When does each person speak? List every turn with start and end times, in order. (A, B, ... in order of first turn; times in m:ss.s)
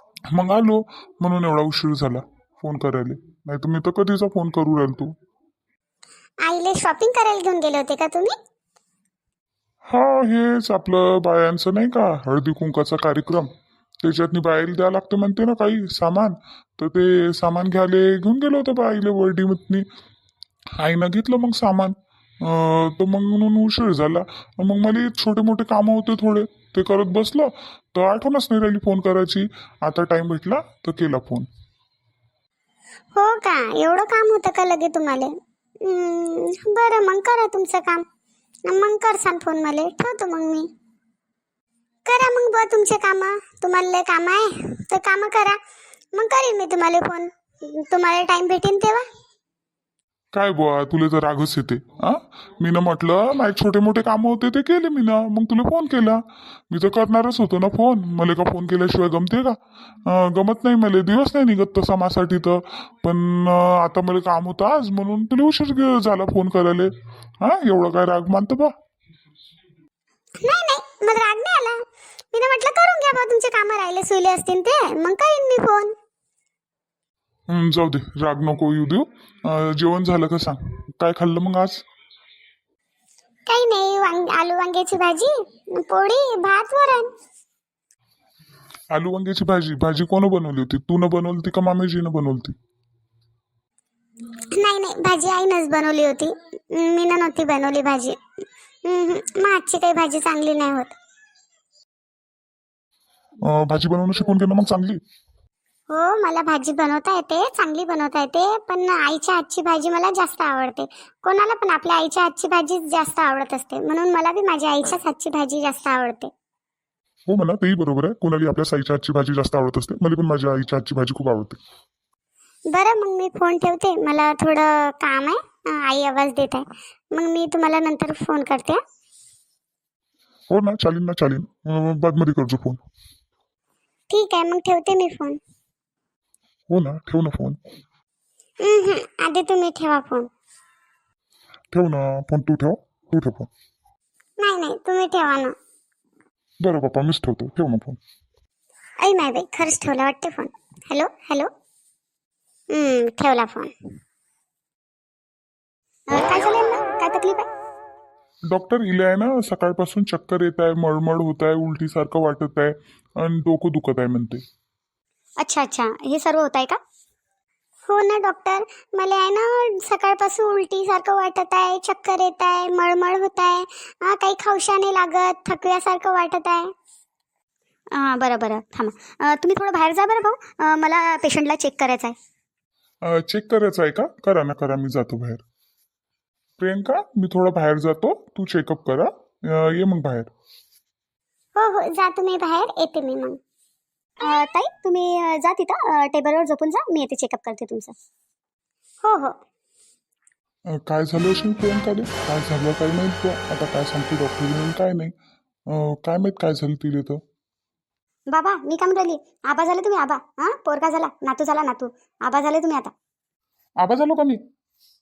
0:00.3-0:05.1 A
0:06.4-0:08.3 B
0:09.8-0:13.5 A
0:14.0-0:19.8 A
0:20.8-0:31.4 A
0:33.1-0:38.0 B
0:38.7-0:40.7 B
0:42.0-0:45.6 B
0:46.1-0:49.0 B
0:50.3-0:56.2 A
0:56.7-1:06.9 A
1:07.4-1:08.7 A
1:10.4-1:11.8 B
1:12.3-1:15.9 B
1:17.5-1:21.8 A
1:23.5-1:27.1 B
1:28.9-1:32.5 A
1:34.5-1:38.2 B
1:38.8-1:40.9 B
1:43.5-1:45.0 A
1:45.9-1:56.3 B
1:57.3-2:01.6 A
2:02.7-2:08.8 B
2:10.5-2:12.8 A
2:14.1-2:15.4 B
2:16.7-2:17.6 A
2:18.6-2:20.3 B
2:21.7-2:23.5 A
2:24.4-2:25.5 B
2:26.6-2:28.0 A
2:29.0-2:31.5 B
2:32.7-2:33.7 B
2:36.1-2:37.4 C
2:38.5-2:44.4 A
2:45.4-2:46.8 C
2:47.9-2:56.7 B
2:57.9-3:02.2 C
3:03.0-3:05.4 A
3:06.6-3:10.3 A
3:11.6-3:13.4 B
3:14.2-3:17.9 C
3:19.0-3:19.3 B
3:20.7-3:25.1 A
3:25.7-3:27.2 A
3:28.3-3:32.9 C
3:33.8-3:34.4 A